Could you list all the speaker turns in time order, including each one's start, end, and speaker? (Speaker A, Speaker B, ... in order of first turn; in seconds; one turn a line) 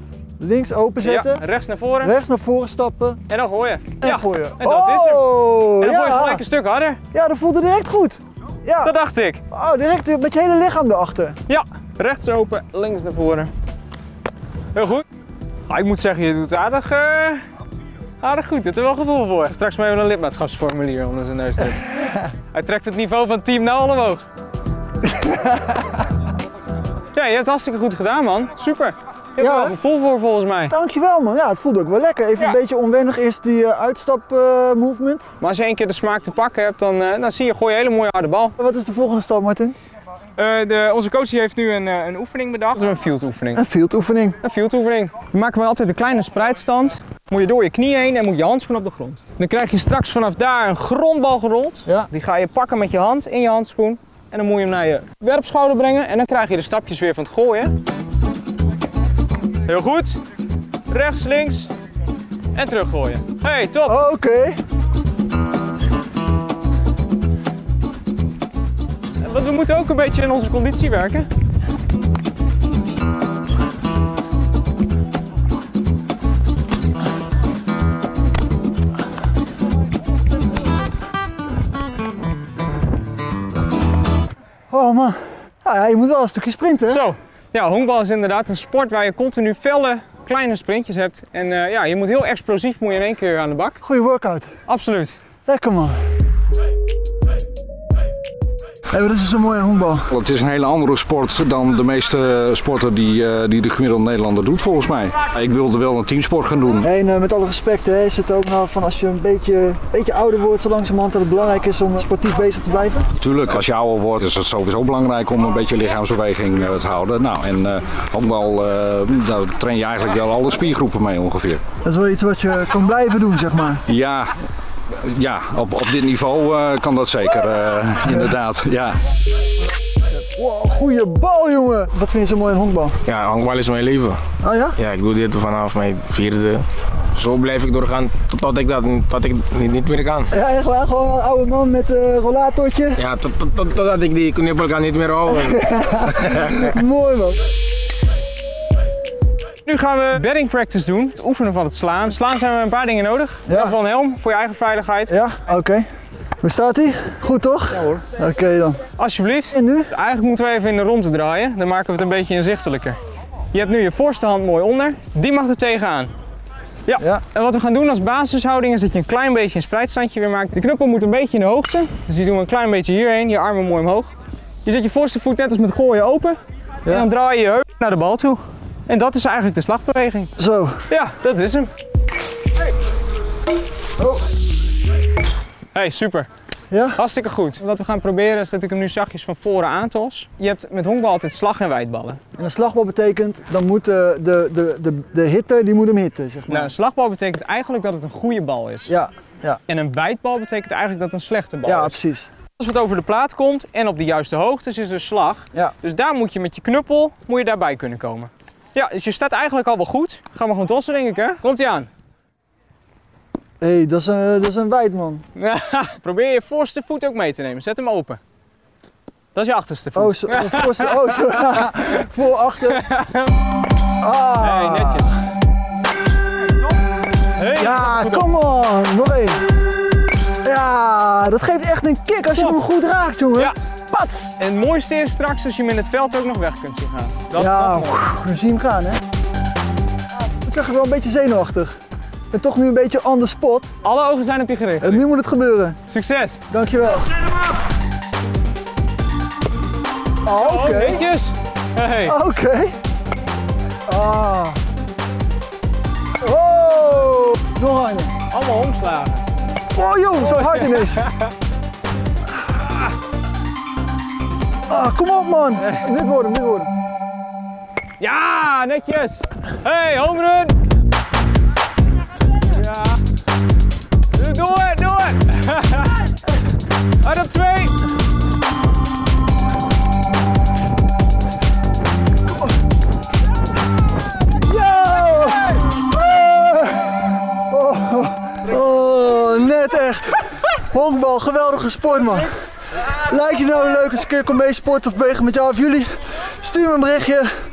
Speaker A: 0.4-1.4
Speaker B: 1.0-2.1
Speaker A: 2.0-3.2
Speaker B: 3.3-5.2
Speaker A: 4.0-6.4
Speaker B: 5.8-7.0
Speaker A: 7.1-8.9
Speaker B: 8.8-9.4
Speaker A: 9.5-11.4
Speaker B: 11.5-13.5
Speaker B: 14.7-15.0
Speaker B: 15.7-17.4
Speaker B: 18.2-21.9
Speaker B: 22.5-24.2
Speaker A: 25.1-25.5
Speaker B: 27.1-30.7
Speaker A: 29.4-29.7
Speaker A: 30.7-35.3
Speaker B: 35.4-38.5
Speaker A: 38.6-39.8
Speaker B: 40.4-43.6
Speaker A: 43.5-44.4
Speaker B: 44.4-57.7
Speaker B: 59.6-60.2
Speaker B: 60.9-61.7
Speaker B: 62.5-64.0
Speaker A: 63.8-64.6
Speaker B: 69.2-71.3
Speaker A: 84.7-87.0
Speaker B: 86.9-93.8
Speaker A: 93.8-94.5
Speaker B: 94.7-95.2
Speaker A: 95.5-96.0
Speaker A: 98.9-100.1
Speaker C: 100.1-106.8
Speaker A: 106.8-113.1
Speaker C: 113.2-121.6
Speaker A: 121.8-123.8
Speaker C: 123.9-124.3
Speaker C: 124.9-129.0
Speaker A: 130.1-133.0
Speaker D: 133.1-134.2
Speaker A: 134.4-134.8
Speaker D: 134.8-140.3
Speaker A: 140.3-143.0
Speaker D: 143.0-146.7
Speaker A: 145.4-147.4
Speaker B: 149.7-155.2
Speaker A: 153.5-153.7
Speaker A: 155.1-155.8
Speaker A: 156.4-158.8
Speaker B: 159.0-163.0
Speaker A: 159.5-159.9
Speaker B: 163.5-166.1
Speaker B: 166.8-174.1
Speaker A: 167.0-167.2
Speaker B: 174.6-180.3
Speaker A: 180.4-180.8
Speaker B: 180.9-181.7
Speaker A: 184.0-184.3
Speaker B: 185.7-186.3
Speaker A: 186.7-187.0
Speaker B: 186.9-192.2
Speaker A: 192.3-196.7
Speaker B: 196.5-198.9
Speaker A: 198.9-199.6
Speaker B: 199.7-202.0
Speaker A: 201.6-202.3
Speaker B: 202.6-211.9
Speaker A: 213.6-215.2
Speaker B: 215.3-218.2
Speaker B: 219.3-221.6
Speaker A: 219.9-222.8
Speaker B: 222.7-223.3
Speaker A: 224.0-225.1
Speaker B: 224.4-225.2
Speaker B: 227.3-228.3
Speaker A: 227.5-229.4
Speaker A: 230.4-234.3
Speaker B: 234.4-238.0
Speaker A: 237.3-239.0
Speaker A: 240.4-241.8
Speaker A: 242.3-243.7
Speaker B: 243.8-245.0
Speaker A: 244.8-245.8
Speaker B: 245.9-246.4
Speaker A: 246.5-247.1
Speaker A: 250.2-251.1
Speaker B: 250.4-252.2
Speaker A: 252.0-252.8
Speaker A: 253.9-254.6
Speaker A: 256.2-258.1
Speaker B: 258.3-259.2
Speaker A: 259.7-261.0
Speaker B: 260.2-261.3
Speaker A: 264.7-266.7
Speaker B: 268.0-270.6
Speaker B: 272.4-273.0
Speaker B: 274.1-276.1
Speaker B: 277.0-277.8
Speaker A: 284.4-297.3